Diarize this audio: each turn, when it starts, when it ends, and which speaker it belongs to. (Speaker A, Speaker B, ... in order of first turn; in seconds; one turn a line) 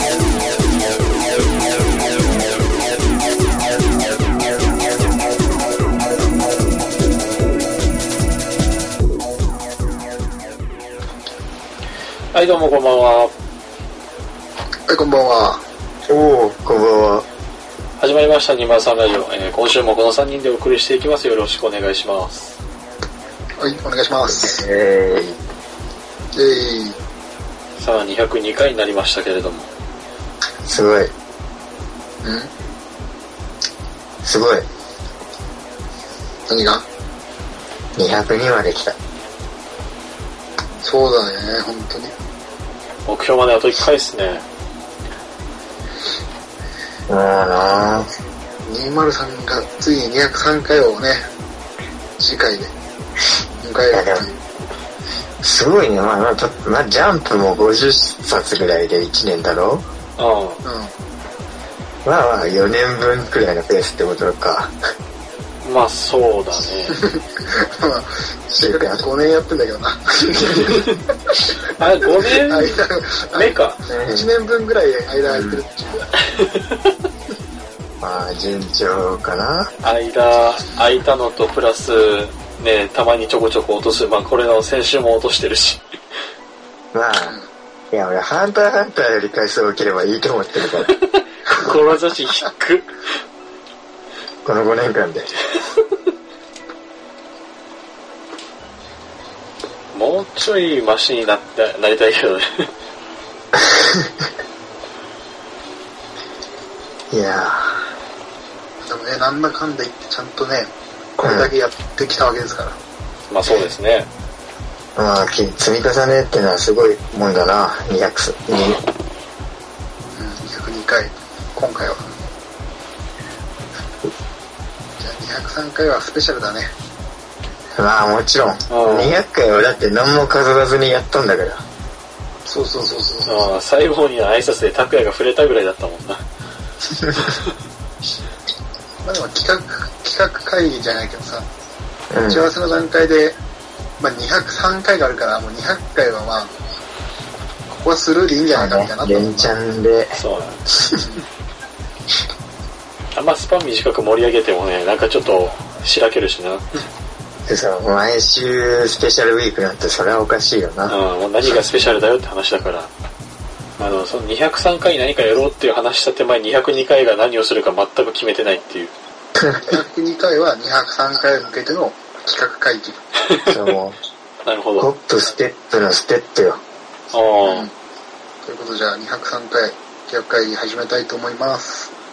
Speaker A: 12.3-13.3
Speaker B: 14.9-15.6
Speaker C: 16.1-17.2
Speaker A: 18.0-22.6
Speaker B: 23.6-24.6
Speaker C: 24.3-25.4
Speaker B: 26.3-27.0
Speaker A: 27.8-29.7
Speaker C: 30.6-31.1
Speaker B: 32.2-32.5
Speaker C: 34.2-34.7
Speaker B: 36.5-36.9
Speaker C: 38.0-39.0
Speaker B: 40.8-42.1
Speaker A: 43.1-44.5
Speaker C: 47.1-48.1
Speaker B: 48.6-51.2
Speaker B: 52.2-52.7
Speaker B: 53.6-54.4
Speaker C: 53.9-54.2
Speaker C: 55.4-59.9
Speaker A: 60.2-60.6
Speaker B: 60.6-60.9
Speaker C: 62.0-64.7
Speaker A: 65.6-67.0
Speaker B: 66.9-70.9
Speaker C: 68.6-69.0
Speaker C: 70.3-70.9
Speaker A: 71.8-72.8
Speaker B: 72.3-76.2
Speaker A: 73.3-73.8
Speaker C: 73.9-74.3
Speaker C: 75.2-75.6
Speaker A: 76.3-76.9
Speaker C: 78.0-79.7
Speaker A: 79.8-85.8
Speaker C: 86.9-87.4
Speaker C: 87.9-90.9
Speaker A: 91.5-92.9
Speaker C: 94.4-95.3
Speaker A: 99.9-102.7
Speaker C: 103.5-104.1
Speaker C: 107.1-107.8
Speaker B: 108.8-112.8
Speaker C: 111.2-111.5
Speaker A: 113.3-114.1
Speaker C: 115.0-118.8
Speaker B: 120.1-122.1
Speaker B: 125.0-126.7
Speaker C: 127.7-131.6
Speaker A: 128.7-129.2
Speaker B: 132.4-133.3
Speaker A: 133.2-136.2
Speaker C: 136.9-137.3
Speaker B: 139.0-141.5
Speaker C: 142.1-142.5
Speaker B: 142.3-143.4
Speaker B: 144.0-146.5
Speaker B: 147.7-149.5
Speaker C: 148.5-150.2
Speaker A: 150.2-150.6
Speaker C: 150.7-151.0
Speaker A: 153.1-156.7
Speaker C: 157.5-161.0
Speaker A: 160.9-162.9
Speaker A: 163.8-168.9
Speaker C: 169.4-169.6
Speaker B: 169.6-173.0
Speaker C: 173.4-174.0
Speaker A: 174.4-174.9
Speaker C: 174.8-176.6
Speaker A: 177.1-177.7
Speaker B: 177.4-177.7
Speaker B: 178.4-181.9